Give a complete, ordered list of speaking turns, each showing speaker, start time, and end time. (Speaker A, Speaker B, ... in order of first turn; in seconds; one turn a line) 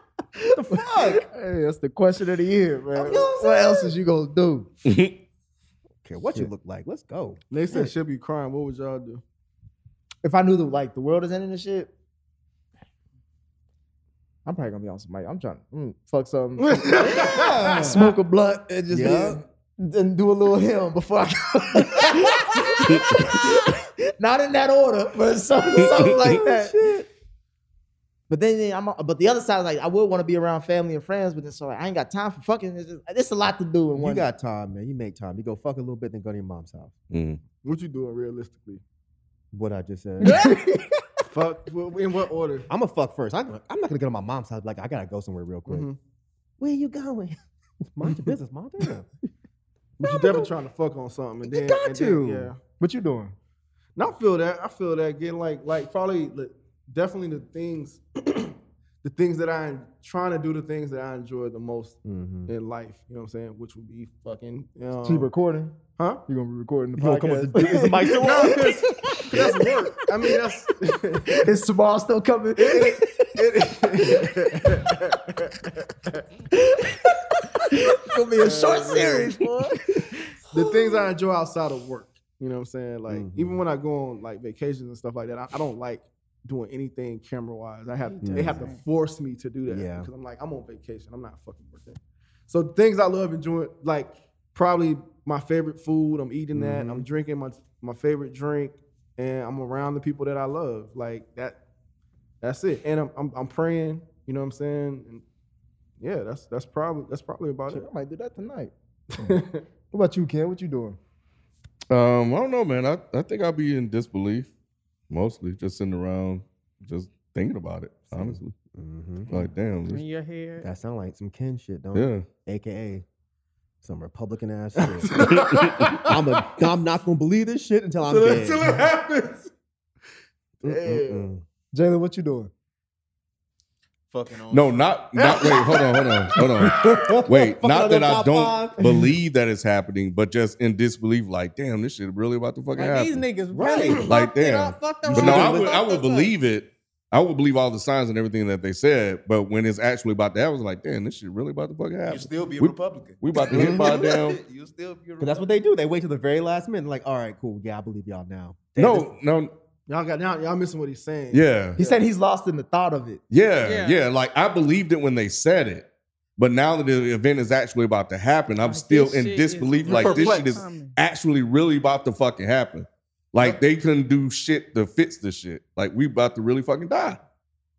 Speaker A: 0.4-4.7
Speaker B: 0.5-1.2
Speaker B: 2.9-3.9
Speaker C: 4.8-5.2
Speaker B: 6.0-7.4
Speaker D: 7.5-9.2
Speaker A: 10.2-11.9
Speaker A: 14.4-26.7
Speaker D: 16.6-17.7
Speaker B: 17.1-18.1
Speaker B: 18.9-19.4
Speaker B: 25.9-27.1
Speaker A: 28.3-34.2
Speaker B: 34.0-36.9
Speaker C: 37.1-37.4
Speaker D: 37.6-38.8
Speaker B: 39.5-40.5
Speaker A: 40.2-41.0
Speaker E: 40.3-40.5
Speaker D: 41.3-42.7
Speaker B: 42.7-45.9
Speaker D: 45.7-46.0
Speaker B: 46.6-49.1
Speaker D: 50.0-52.6
Speaker B: 50.0-50.5
Speaker B: 51.4-52.5
Speaker A: 52.8-53.3
Speaker D: 54.0-65.3
Speaker B: 62.0-62.5
Speaker A: 65.0-70.4
Speaker D: 66.0-66.2
Speaker B: 67.0-69.6
Speaker D: 68.1-71.5
Speaker A: 71.3-73.4
Speaker D: 72.6-76.2
Speaker A: 74.0-74.3
Speaker A: 76.7-77.0
Speaker A: 77.6-80.3
Speaker D: 78.4-79.4
Speaker D: 80.5-101.6
Speaker B: 83.1-83.6
Speaker E: 88.0-88.8
Speaker B: 88.2-88.6
Speaker B: 89.7-90.1
Speaker B: 96.5-97.1
Speaker D: 102.4-105.2
Speaker D: 106.0-107.9
Speaker A: 107.7-109.4
Speaker D: 109.2-109.6
Speaker A: 109.9-111.0
Speaker C: 111.9-114.5
Speaker C: 115.1-118.5
Speaker B: 118.1-119.5
Speaker C: 119.3-120.0
Speaker E: 119.8-120.7
Speaker B: 120.6-123.0
Speaker C: 121.9-122.2
Speaker B: 123.8-125.2
Speaker D: 124.8-126.5
Speaker C: 125.5-125.8
Speaker B: 125.8-128.7
Speaker D: 128.0-129.5
Speaker D: 130.6-131.3
Speaker B: 130.6-131.4
Speaker A: 131.7-132.5
Speaker F: 134.1-135.0
Speaker C: 134.5-143.2
Speaker D: 135.1-137.2
Speaker B: 136.7-138.8
Speaker A: 138.8-139.1
Speaker E: 142.8-146.3
Speaker B: 143.5-144.1
Speaker C: 144.1-154.4
Speaker B: 145.0-145.7
Speaker F: 152.1-155.5
Speaker B: 153.5-153.9
Speaker B: 155.2-159.1
Speaker C: 158.8-159.5
Speaker D: 159.9-162.1
Speaker C: 161.3-161.8
Speaker A: 161.8-163.2
Speaker C: 163.3-177.2
Speaker E: 163.6-164.0
Speaker E: 168.6-170.9
Speaker D: 169.8-170.6